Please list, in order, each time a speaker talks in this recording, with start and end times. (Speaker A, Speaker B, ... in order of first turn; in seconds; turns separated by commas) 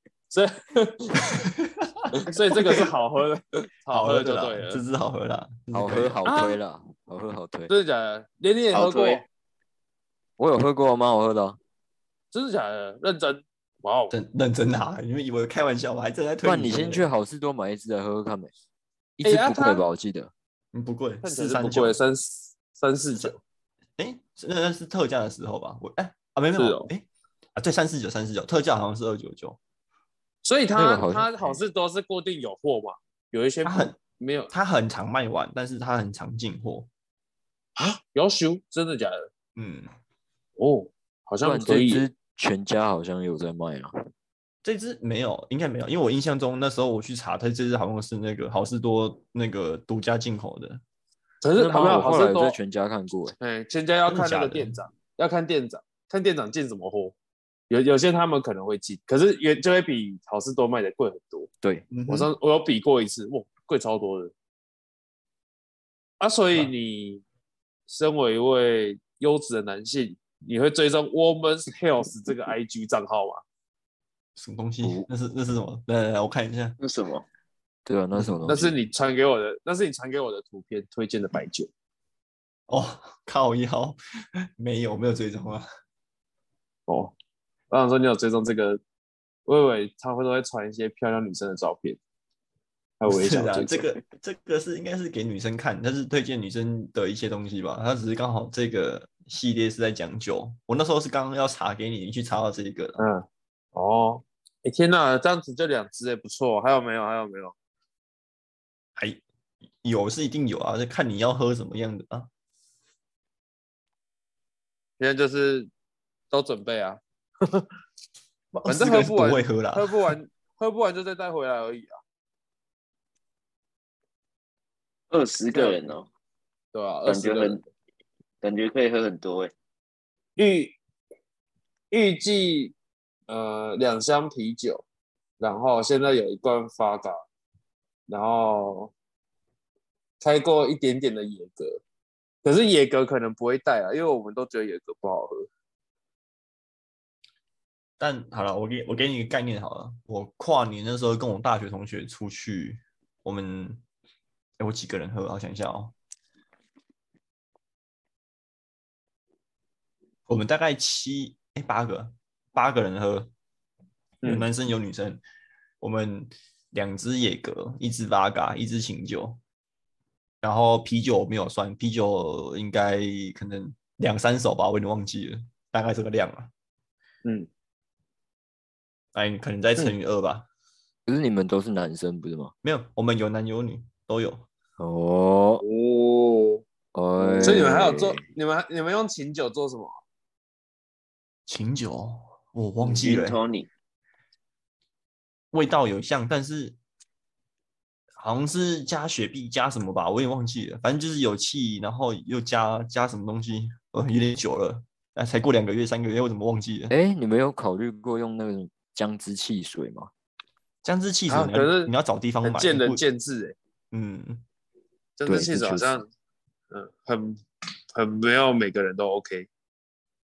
Speaker A: 0.3-1.2, Speaker B: 1.4-2.1, Speaker A: 2.2-4.8, Speaker B: 3.9-6.2, Speaker C: 5.7-7.7, Speaker A: 6.3-6.5, Speaker A: 7.7-9.2, Speaker D: 8.7-9.2, Speaker C: 10.4-11.6, Speaker A: 12.3-14.2, Speaker B: 14.1-17.1, Speaker C: 16.4-18.5, Speaker C: 19.2-20.3, Speaker A: 19.2-19.8, Speaker B: 20.7-22.0, Speaker A: 21.2-23.4, Speaker B: 24.0-29.6, Speaker A: 26.6-26.9, Speaker A: 30.4-34.5, Speaker C: 30.8-31.6, Speaker B: 33.6-34.0, Speaker B: 34.5-36.9, Speaker A: 37.8-39.3, Speaker B: 39.6-39.9, Speaker A: 40.6-42.0, Speaker C: 41.4-44.0, Speaker B: 44.6-50.8, Speaker A: 51.4-52.6, Speaker C: 51.6-53.4, Speaker A: 53.4-57.1, Speaker B: 54.1-54.8, Speaker A: 57.7-61.5, Speaker B: 61.9-62.3, Speaker A: 62.1-64.3, Speaker A: 66.2-67.2, Speaker A: 67.9-73.4, Speaker B: 74.4-76.8, Speaker C: 74.8-75.1, Speaker D: 76.8-77.2, Speaker C: 77.9-78.7, Speaker B: 78.2-78.5, Speaker A: 78.5-81.7, Speaker B: 82.7-85.7, Speaker A: 86.9-87.2, Speaker A: 87.7-88.8, Speaker A: 89.5-92.0, Speaker A: 93.0-93.9, Speaker B: 93.1-103.0, Speaker A: 103.0-107.5, Speaker B: 109.0-109.2, Speaker B: 109.8-112.3, Speaker A: 115.0-115.7, Speaker A: 116.3-117.7, Speaker B: 118.5-119.9, Speaker A: 118.7-122.0, Speaker D: 125.1-126.1, Speaker A: 125.5-125.8, Speaker A: 126.7-127.6, Speaker D: 127.1-127.6, Speaker D: 128.4-129.5, Speaker A: 130.4-130.8, Speaker A: 131.9-132.8, Speaker A: 133.3-134.8, Speaker A: 135.4-137.2, Speaker A: 138.1-138.9, Speaker A: 140.2-141.8, Speaker A: 142.4-145.5, Speaker B: 148.0-153.8, Speaker B: 154.6-155.9, Speaker B: 160.3-163.3, Speaker B: 164.2-165.2, Speaker B: 165.8-169.4, Speaker B: 170.4-176.5, Speaker A: 177.2-177.5, Speaker B: 179.2-180.5, Speaker C: 181.1-182.5, Speaker B: 182.6-184.5, Speaker C: 184.8-185.6, Speaker A: 185.6-186.6, Speaker C: 186.9-188.2, Speaker A: 187.2-190.0, Speaker B: 191.5-193.4, Speaker D: 192.8-193.7, Speaker B: 195.5-196.8, Speaker B: 198.2-206.9, Speaker C: 206.9-210.1, Speaker B: 210.8-213.0, Speaker A: 211.3-211.9, Speaker A: 212.4-213.6, Speaker B: 213.9-214.4, Speaker A: 215.2-216.1, Speaker C: 215.3-216.0, Speaker A: 216.7-217.4, Speaker A: 217.9-219.5